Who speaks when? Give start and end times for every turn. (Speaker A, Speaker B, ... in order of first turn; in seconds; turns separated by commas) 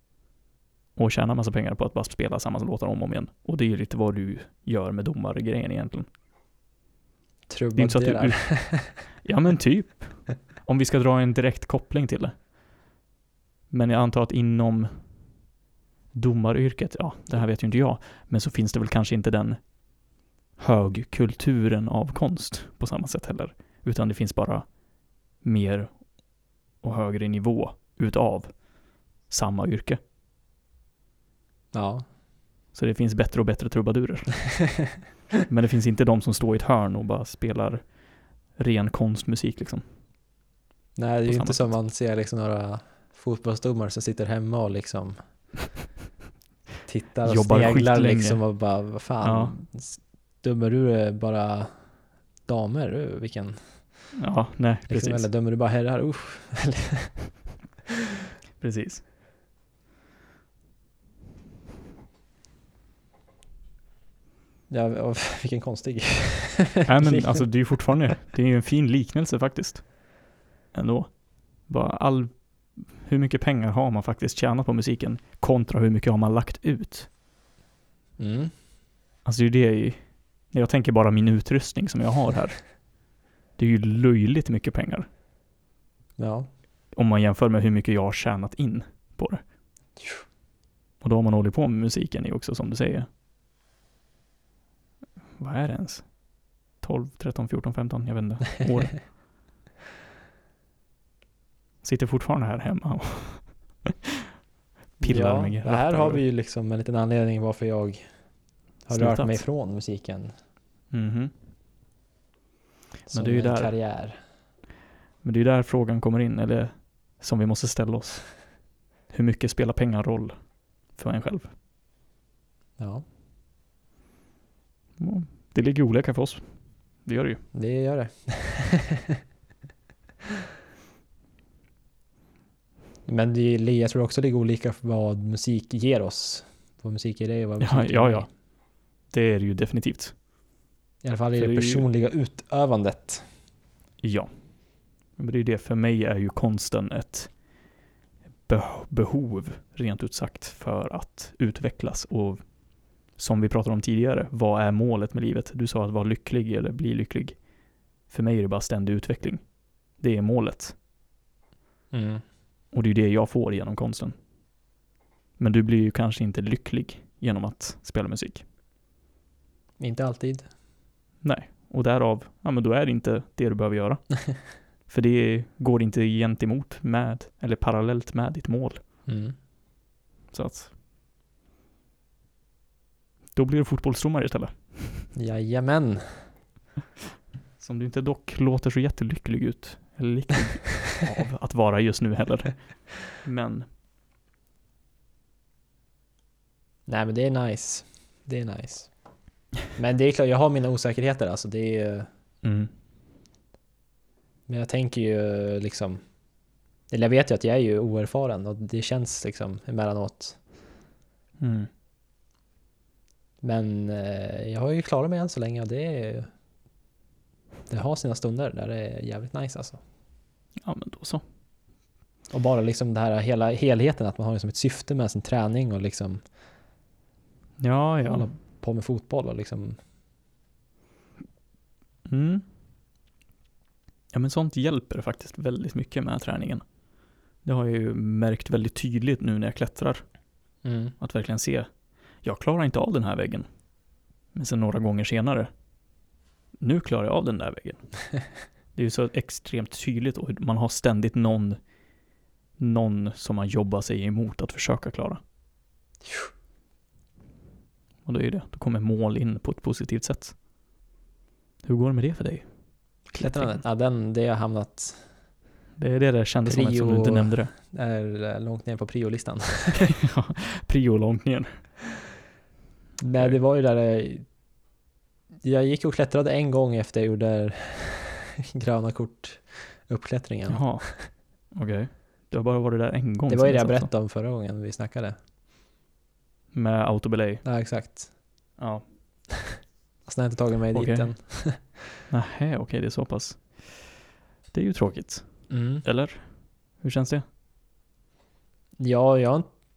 Speaker A: 1.0-6.1, Speaker B: 7.5-9.0, Speaker A: 7.8-8.5, Speaker A: 9.2-12.3, Speaker A: 13.7-14.9, Speaker A: 16.1-19.6, Speaker A: 20.6-24.7, Speaker A: 25.4-26.0, Speaker A: 26.8-28.5, Speaker A: 29.3-30.0, Speaker B: 31.7-32.0, Speaker A: 32.7-34.4, Speaker A: 35.5-37.8, Speaker A: 38.6-39.8, Speaker B: 41.0-45.2, Speaker A: 41.3-41.7, Speaker B: 46.9-51.8, Speaker A: 47.3-48.4, Speaker A: 49.2-49.5, Speaker B: 52.5-53.6, Speaker A: 54.2-55.3, Speaker B: 54.9-57.1, Speaker A: 58.6-59.0, Speaker B: 64.7-67.4, Speaker A: 66.9-70.0, Speaker A: 70.7-77.1, Speaker B: 78.2-78.5, Speaker A: 79.2-80.0, Speaker A: 80.5-82.6, Speaker A: 83.6-85.1, Speaker B: 86.2-86.5, Speaker A: 86.9-89.4, Speaker A: 91.0-93.1, Speaker A: 95.4-96.1, Speaker A: 96.8-99.0, Speaker A: 101.8-104.3, Speaker A: 105.0-106.2, Speaker B: 105.0-108.0, Speaker B: 108.9-110.3, Speaker A: 108.9-109.4, Speaker A: 110.9-111.3, Speaker A: 113.1-113.7, Speaker B: 113.1-114.2, Speaker A: 115.2-118.3, Speaker A: 119.1-120.3, Speaker A: 120.9-121.5, Speaker B: 122.8-123.0, Speaker A: 125.0-126.4, Speaker A: 127.0-127.4, Speaker B: 127.5-129.2, Speaker B: 133.1-138.3, Speaker A: 137.6-138.3, Speaker A: 139.1-140.1, Speaker B: 141.0-143.2, Speaker A: 141.4-141.9, Speaker A: 144.0-144.3, Speaker A: 145.2-147.3, Speaker A: 148.5-152.4, Speaker A: 153.2-157.4, Speaker A: 158.1-159.4, Speaker A: 160.0-160.8, Speaker B: 161.9-162.2, Speaker A: 162.7-164.1, Speaker A: 165.4-168.4, Speaker B: 169.8-170.5, Speaker A: 171.2-174.0, Speaker A: 174.9-178.8, Speaker B: 179.1-179.3, Speaker A: 180.3-180.7, Speaker A: 183.3-185.1, Speaker B: 185.2-186.2, Speaker A: 187.6-193.7, Speaker B: 196.9-198.9, Speaker B: 199.7-202.1, Speaker A: 202.4-202.7, Speaker B: 204.5-206.0, Speaker B: 206.9-210.4, Speaker A: 211.4-211.7, Speaker B: 213.4-216.3, Speaker B: 217.7-219.8, Speaker A: 220.6-221.2, Speaker B: 222.3-226.2, Speaker A: 227.6-228.3, Speaker B: 228.1-229.8, Speaker A: 232.1-232.4, Speaker A: 234.1-236.6, Speaker A: 237.4-240.0, Speaker B: 240.6-240.9, Speaker A: 241.0-241.7, Speaker A: 242.2-243.5, Speaker A: 244.3-245.5, Speaker A: 246.6-247.8, Speaker A: 248.8-251.6, Speaker A: 252.6-255.2, Speaker A: 258.1-260.4, Speaker A: 261.6-262.5, Speaker B: 263.1-265.0, Speaker A: 263.1-263.6, Speaker A: 265.8-267.5, Speaker B: 266.5-269.9, Speaker A: 269.8-271.5, Speaker B: 273.0-274.2, Speaker B: 275.4-281.1, Speaker A: 280.5-280.9, Speaker A: 281.5-283.9, Speaker B: 283.3-285.2, Speaker A: 286.5-287.4, Speaker B: 287.4-288.1, Speaker A: 288.6-288.8, Speaker B: 290.1-291.8, Speaker A: 290.7-291.1, Speaker A: 292.1-293.9, Speaker A: 294.5-295.3, Speaker B: 295.5-295.9, Speaker A: 295.8-296.2, Speaker A: 296.8-297.2, Speaker B: 298.8-299.5